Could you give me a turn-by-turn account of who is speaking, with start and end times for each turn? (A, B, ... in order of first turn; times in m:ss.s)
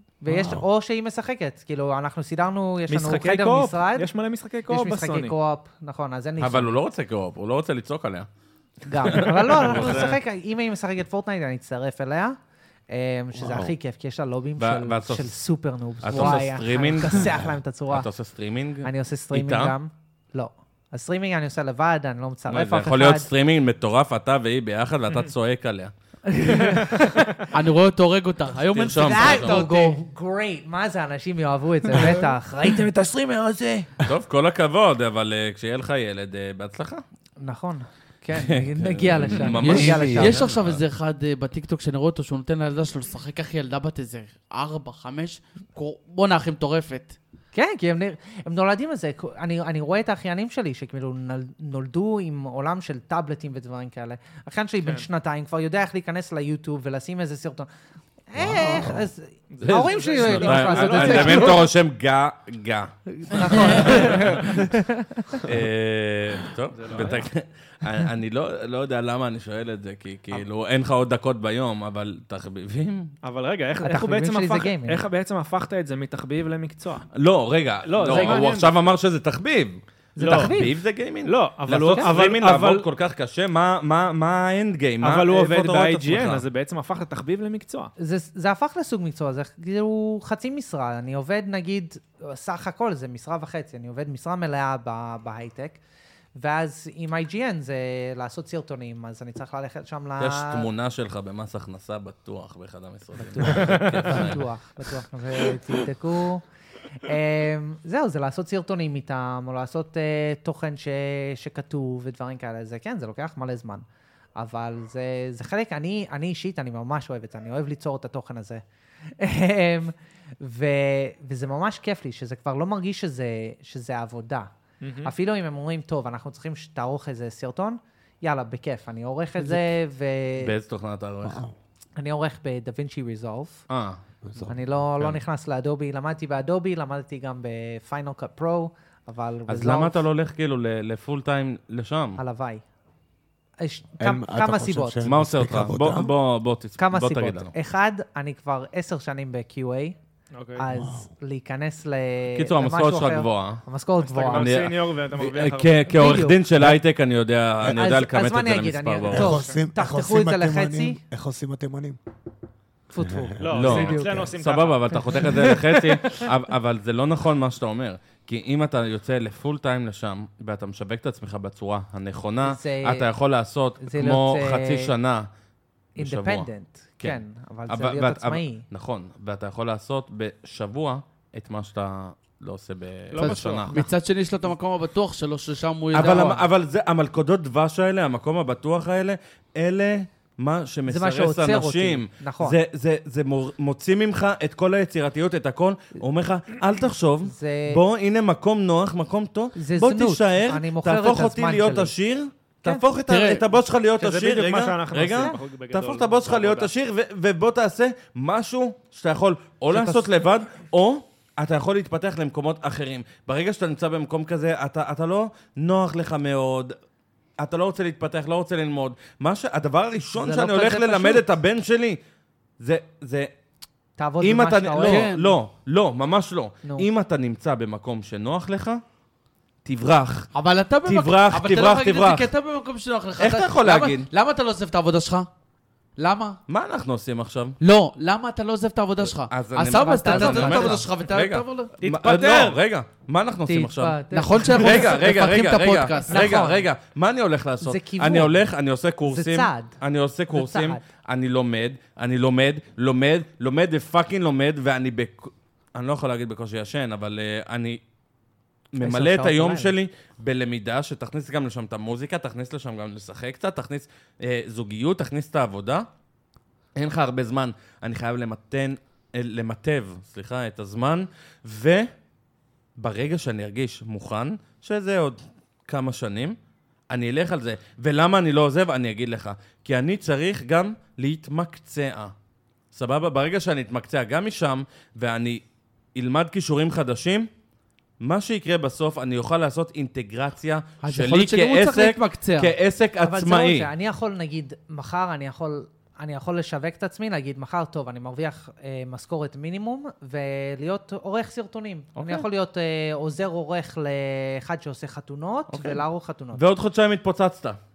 0:00.2-0:04.1 A
0:00.3-0:00.6 B
0:02.9-0:05.4 C
0:04.7-0:06.8 A
0:06.4-0:08.3 D
0:08.9-0:12.4 A
0:09.0-0:10.2 D
0:12.9-0:18.1 A
0:13.3-0:13.7 B
0:14.6-0:15.3 D
0:16.0-0:19.7 D
0:18.8-0:23.3 A
0:22.5-0:25.9 D
0:26.3-0:27.3 A
0:27.5-0:30.0 E
0:28.7-0:29.6 D
0:29.0-0:33.8 A
0:34.0-0:37.0 D
0:37.4-0:40.5 A
0:38.4-0:40.8 D
0:39.6-0:40.4 B
0:39.6-0:47.2 E
0:47.5-0:57.7 A
0:58.3-1:01.7 A
0:58.4-0:59.1 B
0:59.5-1:01.6 C
0:59.6-1:04.6 D
1:03.1-1:05.4 A
1:05.4-1:13.1 D
1:06.8-1:07.3 C
1:13.2-1:17.1 C
1:13.8-1:15.0 A
1:17.1-1:26.4 D
1:17.9-1:18.7 C
1:18.0-1:18.7 A
1:20.2-1:20.8 A
1:20.2-1:20.6 C
1:21.2-1:22.9 C
1:21.8-1:22.2 A
1:25.0-1:27.9 C
1:28.0-1:35.8 A
1:36.4-1:40.7 A
1:40.2-1:44.4 D
1:43.2-1:46.4 A
1:43.6-1:44.0 C
1:47.0-1:53.8 A
1:54.4-1:58.6 A
1:59.2-2:10.5 A
2:04.8-2:05.1 C
2:10.4-2:11.4 D
2:11.2-2:11.5 B
2:12.0-2:13.6 A
2:13.7-2:14.0 D
2:14.3-2:14.5 B
2:14.5-2:20.0 A
2:19.5-2:22.2 D
2:22.2-2:22.6 A
2:23.6-2:25.1 A
2:24.0-2:26.1 B
2:25.0-2:27.5 D
2:26.8-2:30.0 A
2:30.3-2:30.7 C
2:30.6-2:34.6 A
2:30.7-2:31.1 B
2:32.4-2:33.6 D
2:34.0-2:35.8 C
2:34.3-2:39.4 D
2:35.9-2:36.4 A
2:37.7-2:41.0 A
2:39.1-2:42.0 B
2:39.2-2:39.6 C
2:42.9-2:44.2 A
2:43.0-2:44.3 B
2:43.4-2:46.2 C
2:43.5-2:55.3 D
2:52.4-2:53.1 A
2:53.8-2:54.9 A
2:56.0-2:56.5 D
2:56.0-2:58.6 A
2:57.0-3:03.7 D
3:03.1-3:03.8 C
3:03.2-3:06.4 E
3:05.9-3:36.8 D
3:06.0-3:06.4 A
3:10.9-3:12.6 A
3:17.2-3:17.8 A
3:19.6-3:21.9 A
3:23.1-3:23.5 E
3:24.0-3:26.7 C
3:29.7-3:30.1 A
3:37.4-3:42.0 D
3:40.2-3:41.3 A
3:42.6-3:43.3 D
3:44.0-3:45.1 A
3:44.2-3:48.8 D
3:44.8-3:45.3 E
3:49.6-3:50.3 D
3:50.3-3:55.3 E
3:50.8-3:52.3 D
3:53.2-3:54.1 D
3:56.0-3:56.4 E
3:56.5-3:57.6 D
3:57.6-4:01.8 E
3:59.1-4:17.8 D
3:59.7-4:00.9 A
4:01.8-4:02.6 C
4:03.5-4:05.0 A
4:04.1-4:06.2 E
4:06.1-4:06.7 A
4:07.6-4:08.4 A
4:09.1-4:09.8 A
4:10.3-4:10.8 A
4:18.7-4:25.9 D
4:18.8-4:19.7 A
4:26.8-4:31.9 D
4:32.8-4:36.4 D
4:36.9-4:42.1 D
4:42.7-4:45.4 D
4:46.0-4:47.3 D
4:48.0-4:53.7 D
4:50.8-4:52.5 E
4:53.0-5:06.4 A
5:02.0-5:02.2 D
5:05.5-5:07.6 D